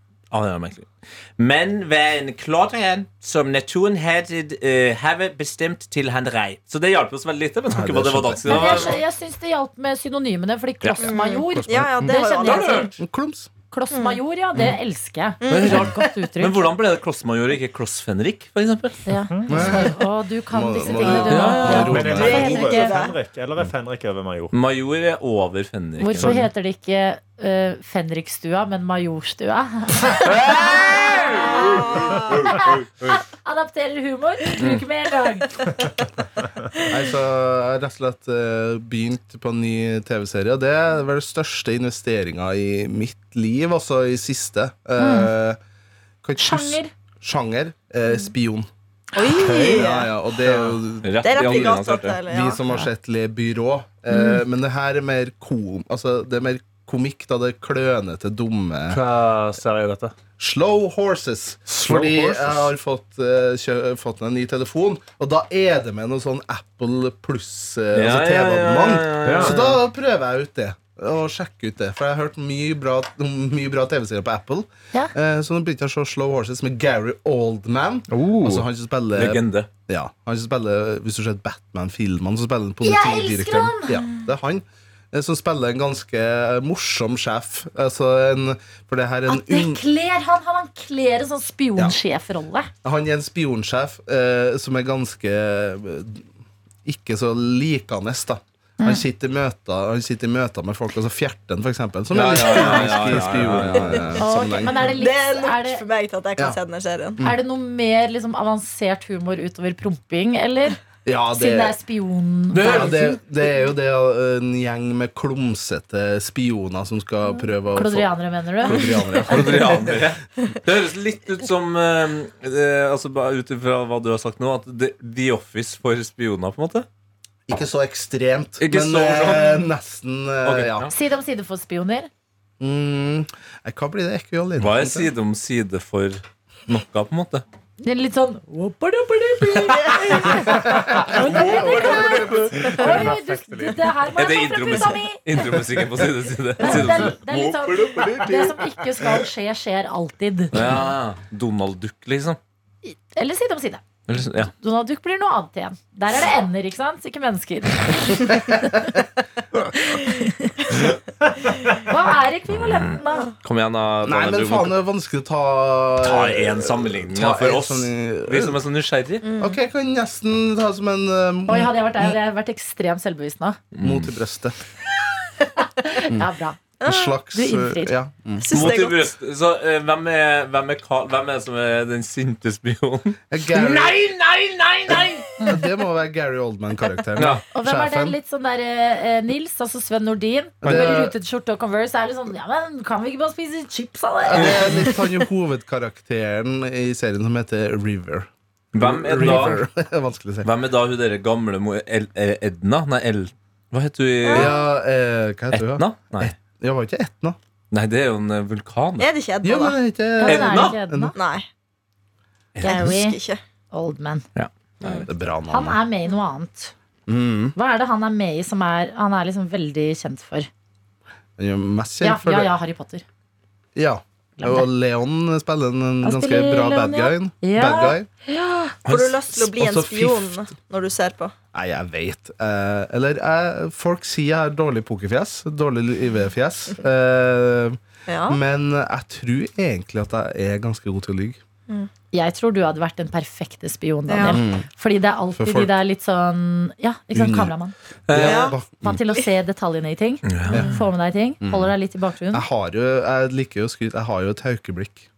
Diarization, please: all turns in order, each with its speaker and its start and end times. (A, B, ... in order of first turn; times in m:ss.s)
0:00.3-0:09.0 A
0:07.7-0:08.9 B
0:08.4-0:12.9 C
0:10.8-0:11.1 A
0:11.0-0:12.9 D
0:11.5-0:12.3 B
0:12.4-0:13.0 A
0:13.0-0:13.5 B
0:13.7-0:16.7 C
0:13.9-0:14.2 D
0:15.4-0:16.1 D
0:15.5-0:19.1 A
0:19.1-0:23.0 C
0:19.3-0:19.8 E
0:19.5-0:20.0 B
0:20.5-0:22.6 B
0:21.1-0:23.2 D
0:21.3-0:22.1 A
0:21.4-0:24.6 E
0:24.5-0:26.4 A
0:26.0-0:35.6 C
0:26.2-0:26.5 E
0:30.2-0:31.8 A
0:30.7-0:32.5 D
0:32.6-0:33.1 A
0:36.8-0:45.6 B
0:45.0-0:45.3 C
0:46.2-0:48.7 B
0:46.4-0:46.9 C
0:49.1-0:50.1 D
0:49.3-0:49.9 E
0:49.4-0:59.0 B
0:51.0-0:52.2 A
0:51.2-0:52.6 D
0:54.1-0:54.4 C
0:58.9-1:00.1 E
1:00.4-1:29.8 B
1:01.7-1:02.7 E
1:07.9-1:09.8 A
1:09.2-1:09.8 E
1:18.1-1:18.6 E
1:19.2-1:19.7 A
1:22.8-1:24.1 C
1:29.3-1:32.7 C
1:32.8-1:36.3 B
1:36.8-1:45.0 B
1:38.8-1:39.1 C
1:42.1-1:44.1 A
1:43.7-1:47.2 D
1:44.2-1:45.8 C
1:47.2-1:50.8 C
1:51.0-1:51.8 B
1:51.3-1:53.2 C
1:52.5-1:53.1 A
1:52.6-2:00.1 B
1:57.7-1:59.1 C
1:59.3-2:06.9 A
2:07.5-2:10.9 B
2:08.6-2:09.6 A
2:10.4-2:10.9 A
2:10.9-2:12.1 C
2:12.6-2:15.1 B
2:14.6-2:17.4 A
2:17.8-2:25.6 C
2:19.7-2:20.1 D
2:19.9-2:22.8 A
2:20.3-2:22.7 B
2:22.5-2:23.9 E
2:24.2-2:28.5 A
2:26.6-2:30.8 C
2:30.5-2:32.4 A
2:32.8-2:33.8 C
2:34.1-2:34.5 A
2:34.5-2:38.8 C
2:38.3-2:38.8 B
2:41.8-2:43.3 C
2:42.5-2:44.8 A
2:44.0-2:48.6 B
2:46.0-2:49.2 A
2:49.2-2:49.6 D
2:49.4-2:52.2 B
2:51.5-2:53.6 C
2:53.7-2:54.1 A
2:53.8-2:54.6 B
2:55.8-2:56.6 C
2:56.8-2:57.1 D
2:56.8-2:58.8 B
2:57.3-2:57.9 C
2:58.4-2:59.0 D
2:58.5-3:05.3 A
3:03.3-3:04.0 B
3:04.9-3:08.2 B
3:05.4-3:05.7 C
3:07.2-3:07.4 A
3:07.5-3:15.0 C
3:10.6-3:11.2 B
3:14.2-3:20.5 B
3:14.3-3:14.7 A
3:18.7-3:19.6 A
3:20.4-3:24.6 A
3:24.2-3:24.6 D
3:24.3-3:27.4 B
3:25.5-3:26.3 A
3:27.7-3:29.1 A
3:29.0-3:29.8 D
3:29.4-3:31.2 B
3:30.2-3:31.2 C
3:30.3-3:30.8 A
3:31.2-3:31.5 D
3:32.6-3:33.0 A
3:32.6-3:33.2 C
3:32.6-3:33.4 D
3:33.7-3:34.2 C
3:34.4-3:35.1 A
3:35.1-3:35.8 B
3:35.5-3:36.7 C
3:37.1-3:37.6 B
3:37.6-3:40.5 C
3:41.4-3:42.5 B
3:42.0-3:43.0 C
3:43.8-3:48.1 B
3:44.4-3:44.7 C
3:46.0-3:48.8 C
3:48.9-3:49.2 A
3:48.9-3:51.3 D
3:49.3-3:50.4 B
3:51.5-4:01.4 B
3:58.1-3:58.4 D
4:02.1-4:07.7 C
4:04.1-4:04.4 D
4:04.3-4:04.7 B
4:05.4-4:05.7 B
4:07.1-4:07.5 B
4:08.1-4:08.5 A
4:08.1-4:09.0 B
4:08.2-4:08.6 D
4:08.8-4:12.4 C
4:10.2-4:10.7 A
4:10.5-4:10.8 B
4:11.4-4:11.7 B
4:12.3-4:15.1 B